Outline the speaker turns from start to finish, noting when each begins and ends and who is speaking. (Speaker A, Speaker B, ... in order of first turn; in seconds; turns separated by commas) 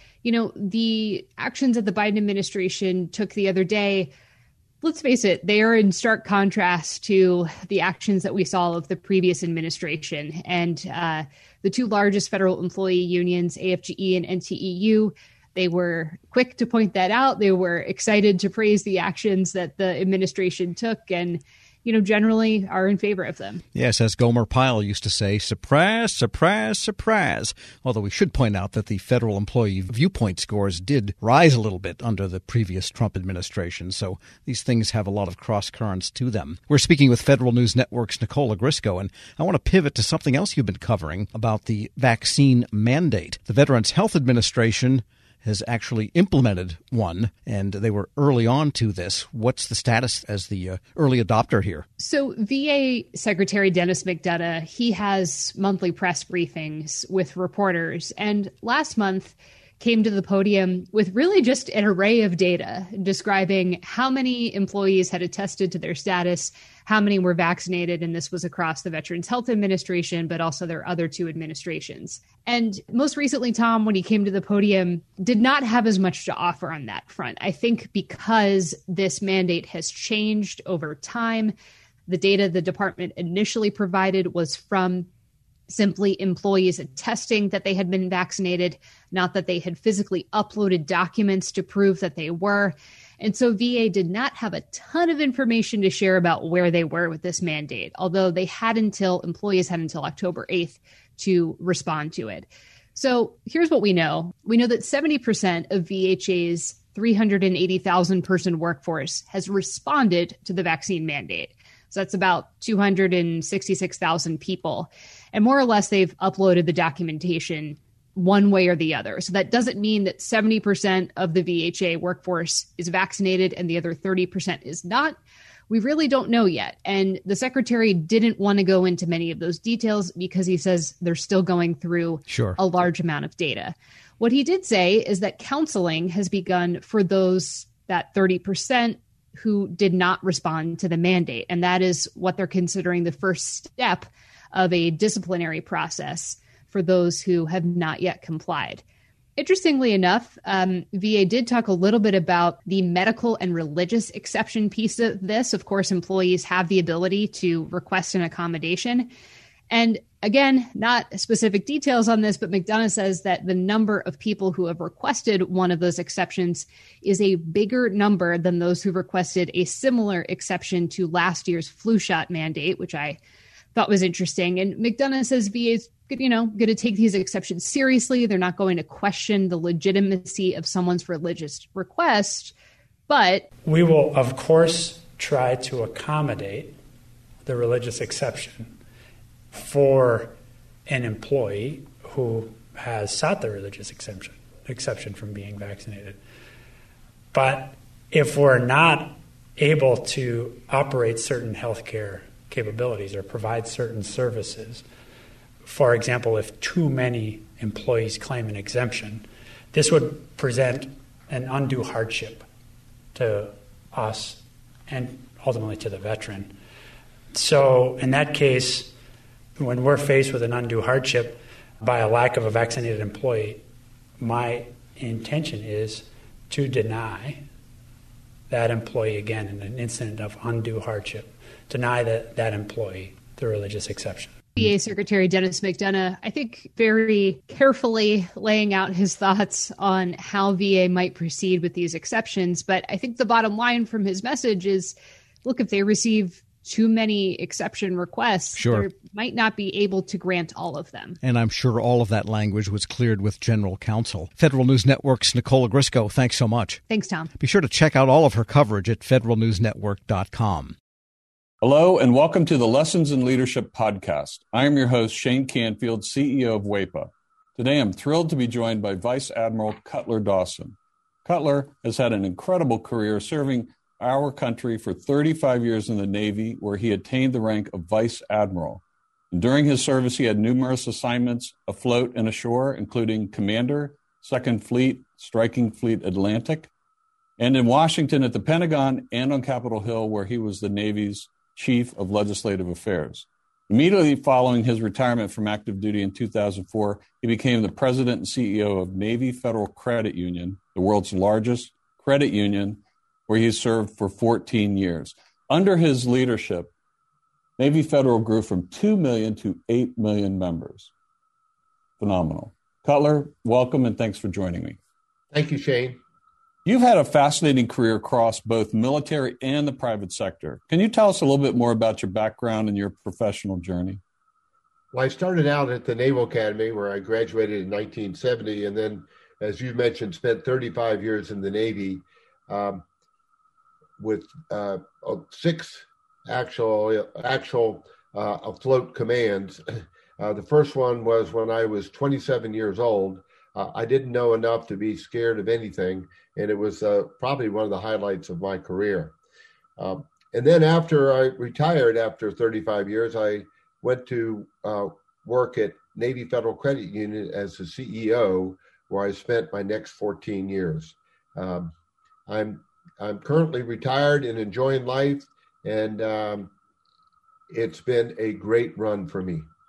Speaker A: 0.2-4.1, Speaker A: 4.8-23.6, Speaker B: 23.7-51.9, Speaker A: 52.0-81.5, Speaker A: 82.1-85.1, Speaker A: 85.7-125.2, Speaker A: 125.7-148.8, Speaker B: 132.3-132.6, Speaker A: 149.4-159.1, Speaker A: 159.7-173.2, Speaker A: 173.7-182.6, Speaker A: 183.1-183.5, Speaker C: 183.6-186.8, Speaker C: 187.4-188.7, Speaker C: 189.5-190.3, Speaker C: 190.9-196.2, Speaker C: 197.3-204.8, Speaker C: 205.6-212.4, Speaker C: 213.1-216.5, Speaker C: 217.3-218.9, Speaker C: 219.6-223.6, Speaker C: 224.2-227.4, Speaker C: 228.5-234.3, Speaker A: 234.6-251.2, Speaker B: 248.6-248.9, Speaker B: 251.2-256.8, Speaker A: 256.9-257.3, Speaker B: 257.4-260.8, Speaker D: 261.6-286.7, Speaker D: 287.4-306.7, Speaker D: 307.6-310.9, Speaker D: 312.0-314.8, Speaker E: 315.3-316.0, Speaker D: 316.6-324.0, Speaker E: 324.9-332.8, Speaker E: 334.0-349.1, Speaker E: 349.8-361.7, Speaker E: 362.3-366.5, Speaker E: 367.5-369.5